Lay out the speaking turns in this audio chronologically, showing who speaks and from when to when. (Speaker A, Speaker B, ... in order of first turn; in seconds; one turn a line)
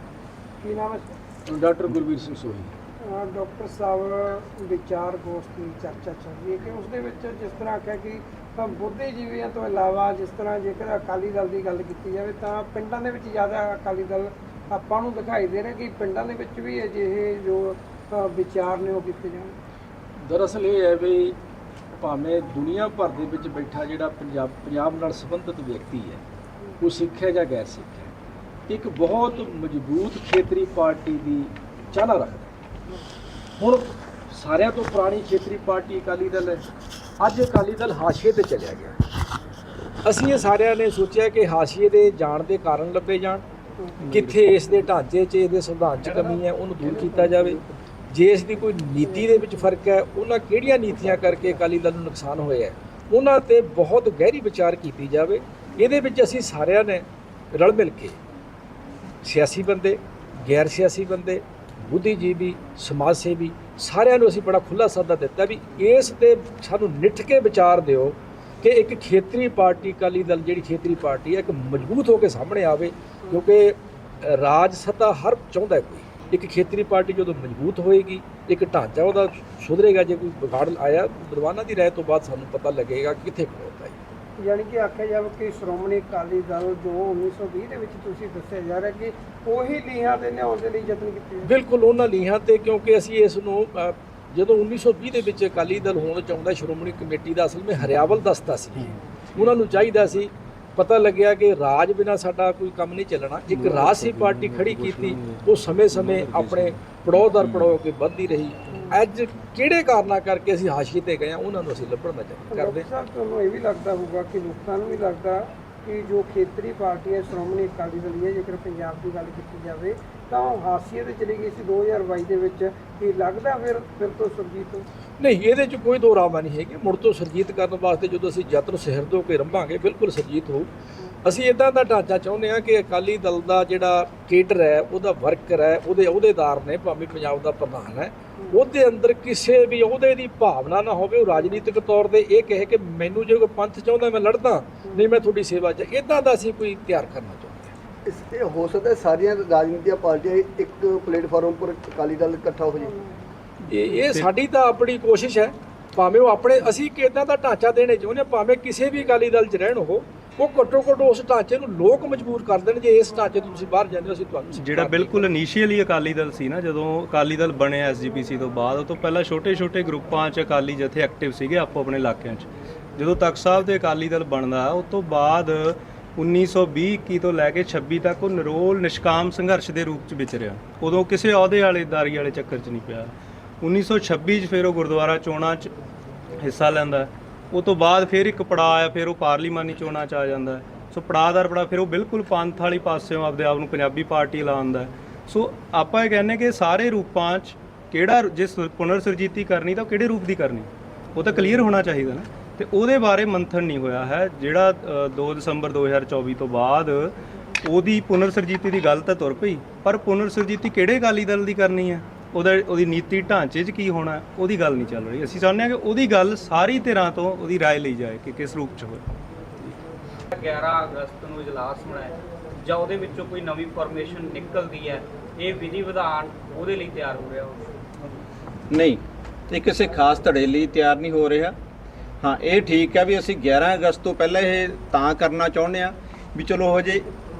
Speaker A: 0.6-1.1
Speaker B: 1.5-2.8
Speaker A: 3.0-19.6
Speaker B: 20.2-21.4
Speaker B: 21.9-26.2
Speaker B: 26.8-28.1
Speaker B: 28.7-32.5
Speaker B: 33.6-36.6
Speaker B: 37.2-39.0
Speaker B: 40.0-43.4
Speaker C: 44.0-44.4
Speaker B: 44.1-58.2
Speaker B: 59.2-84.0
Speaker A: 84.4-91.5
Speaker B: 91.4-112.8
Speaker A: 108.7-109.0
Speaker A: 112.5-124.8
Speaker B: 125.2-130.7
Speaker B: 131.2-147.7
Speaker D: 148.1-152.9
Speaker B: 153.7-165.2
Speaker C: 153.7-154.2
Speaker C: 164.6-185.7
Speaker C: 186.4-219.1
Speaker E: 220.3-227.7
Speaker F: 228.7-231.5
Speaker F: 232.2-237.1